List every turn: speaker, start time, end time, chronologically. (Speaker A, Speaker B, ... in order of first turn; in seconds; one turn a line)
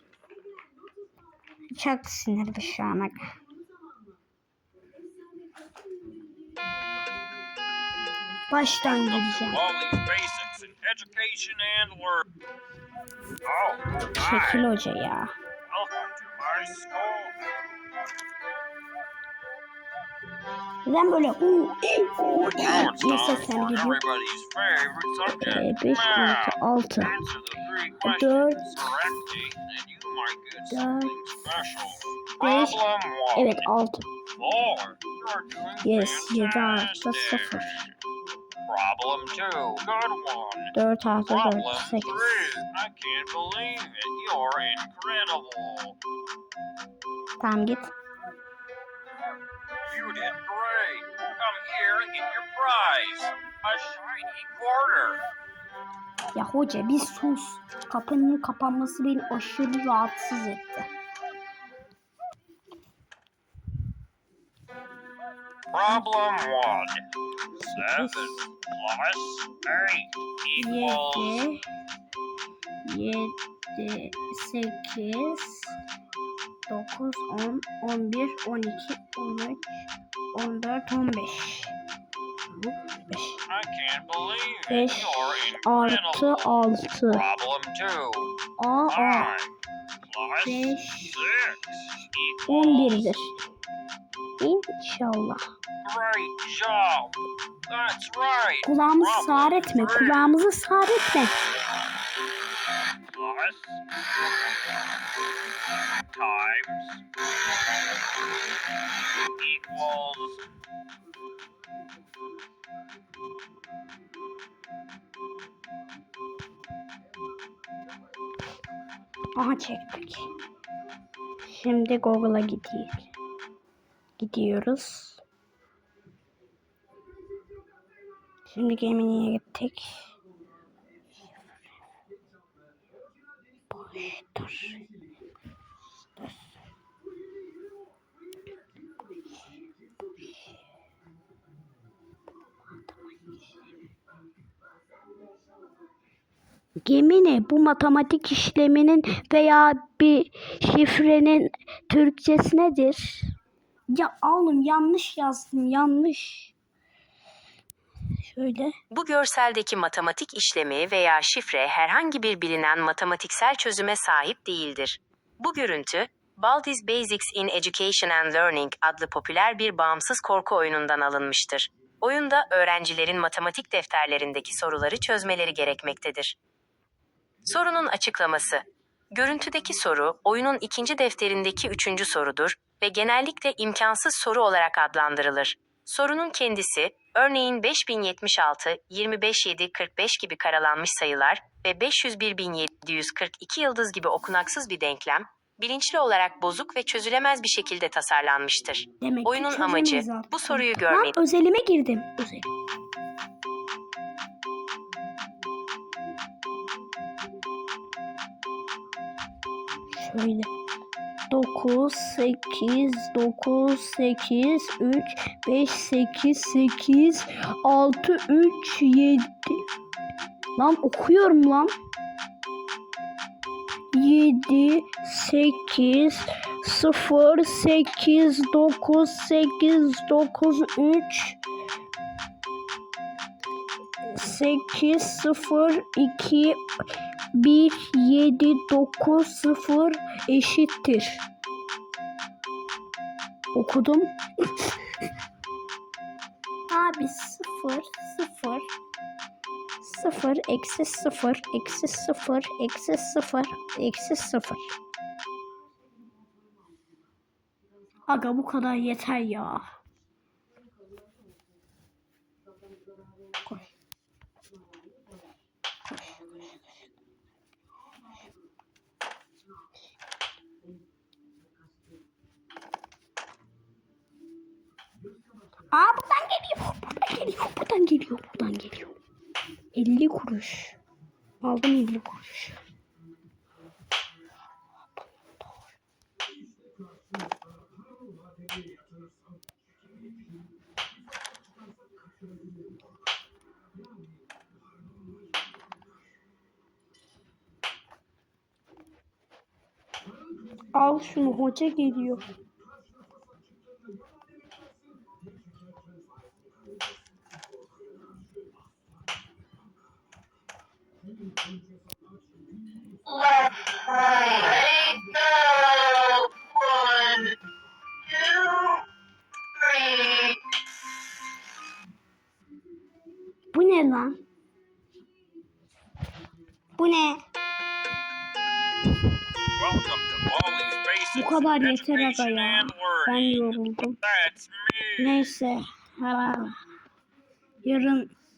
Speaker A: 1.7-3.2
Speaker A: 8.5-9.6
Speaker B: 8.6-12.3
Speaker B: 13.4-14.7
Speaker A: 14.1-15.3
Speaker B: 15.7-17.4
Speaker A: 20.9-24.0
Speaker B: 22.3-33.7
Speaker A: 25.3-27.2
Speaker A: 28.0-28.9
Speaker A: 30.7-31.1
Speaker A: 32.4-32.8
Speaker A: 33.3-34.0
Speaker B: 34.4-37.9
Speaker A: 35.8-37.9
Speaker B: 38.7-40.7
Speaker A: 40.7-42.6
Speaker B: 41.3-46.0
Speaker A: 47.4-47.9
Speaker B: 49.8-55.2
Speaker A: 56.3-60.9
Speaker B: 65.7-67.0
Speaker B: 67.6-71.5
Speaker A: 67.7-68.3
Speaker A: 70.6-71.6
Speaker A: 72.8-75.8
Speaker A: 76.7-81.7
Speaker A: 83.1-83.4
Speaker B: 83.5-88.3
Speaker A: 84.7-87.3
Speaker A: 88.6-89.3
Speaker B: 88.9-89.5
Speaker B: 90.0-93.2
Speaker A: 90.4-91.2
Speaker A: 92.5-93.4
Speaker A: 94.4-95.4
Speaker B: 95.8-100.4
Speaker A: 98.7-101.3
Speaker B: 103.1-103.8
Speaker B: 106.1-107.0
Speaker B: 109.4-110.4
Speaker A: 119.4-120.3
Speaker A: 121.5-123.1
Speaker A: 124.2-125.2
Speaker A: 128.5-130.0
Speaker A: 131.2-131.6
Speaker A: 133.7-134.8
Speaker A: 142.9-143.4
Speaker A: 146.8-153.3
Speaker A: 153.9-156.5
Speaker A: 158.2-158.8
Speaker C: 158.9-176.4
Speaker C: 177.4-201.2
Speaker A: 199.0-202.5
Speaker A: 209.9-210.5
Speaker A: 211.3-219.6
Speaker A: 220.6-221.7
Speaker A: 223.9-231.4
Speaker A: 234.1-236.6
Speaker A: 237.3-241.2
Speaker A: 243.5-244.7
Speaker A: 246.7-248.7
Speaker A: 249.8-254.7
Speaker A: 258.1-259.6
Speaker A: 265.9-266.4
Speaker A: 275.7-278.9
Speaker A: 279.7-280.8
Speaker A: 281.4-282.6
Speaker A: 300.7-302.2
Speaker B: 313.1-316.0
Speaker B: 316.7-317.2
Speaker B: 318.2-318.6
Speaker A: 323.5-324.2
Speaker A: 326.8-327.2
Speaker B: 329.6-335.3
Speaker A: 331.1-334.0
Speaker A: 335.0-336.6
Speaker A: 337.6-338.1